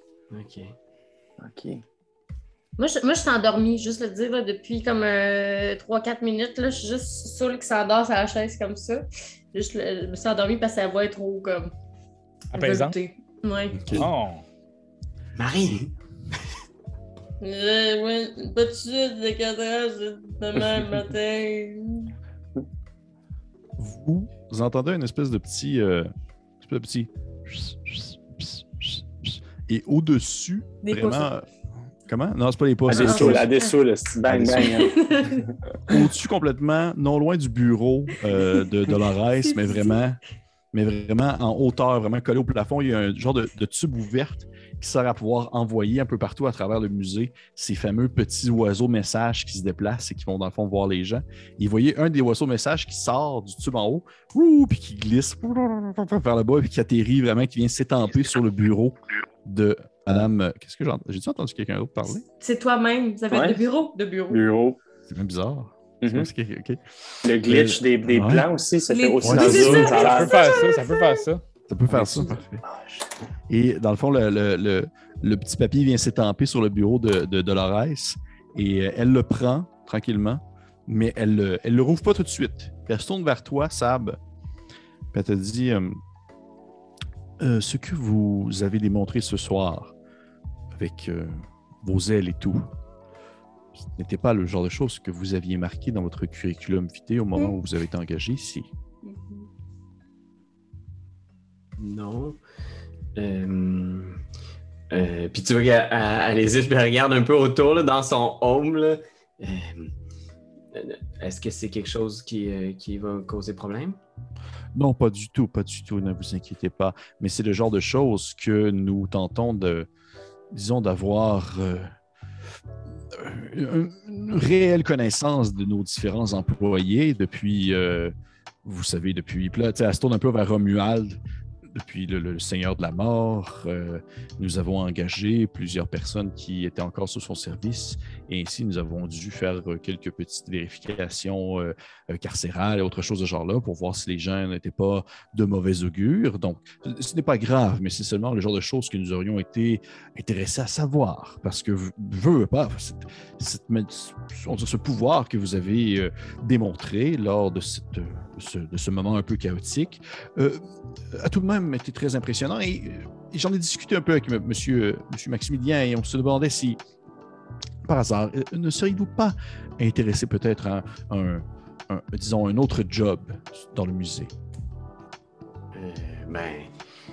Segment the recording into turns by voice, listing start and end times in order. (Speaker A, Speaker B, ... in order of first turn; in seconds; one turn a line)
Speaker A: 0.3-0.8
Speaker B: 1.4-1.8
Speaker C: 2.8-11.7
Speaker D: 12.5-12.9
Speaker C: 12.5-14.1
Speaker E: 13.7-14.1
Speaker D: 14.0-14.4
Speaker A: 15.3-15.9
Speaker C: 17.4-22.1
Speaker E: 23.8-31.4
Speaker C: 30.8-31.3
Speaker E: 32.0-33.5
Speaker B: 32.9-35.4
Speaker C: 32.9-33.5
Speaker E: 34.3-34.7
Speaker C: 34.6-36.0
Speaker E: 35.9-40.2
Speaker C: 39.6-40.0
Speaker E: 40.7-62.2
Speaker C: 62.4-64.4
Speaker B: 63.3-63.6
Speaker B: 64.3-64.8
Speaker E: 65.1-66.8
Speaker B: 66.0-66.3
Speaker B: 67.2-70.7
Speaker E: 67.4-68.5
Speaker C: 68.9-71.2
Speaker E: 69.2-70.0
Speaker D: 69.9-71.4
Speaker E: 71.7-72.6
Speaker B: 71.9-73.0
Speaker E: 73.5-84.2
Speaker E: 85.1-86.0
Speaker E: 87.4-89.9
Speaker E: 90.7-92.7
Speaker E: 93.7-98.7
Speaker C: 99.0-99.5
Speaker A: 101.8-102.4
Speaker A: 103.2-104.2
Speaker A: 104.9-109.9
Speaker A: 110.7-114.0
Speaker E: 114.7-119.9
Speaker E: 120.5-121.9
Speaker E: 123.1-166.8
Speaker E: 167.8-174.3
Speaker A: 175.7-176.7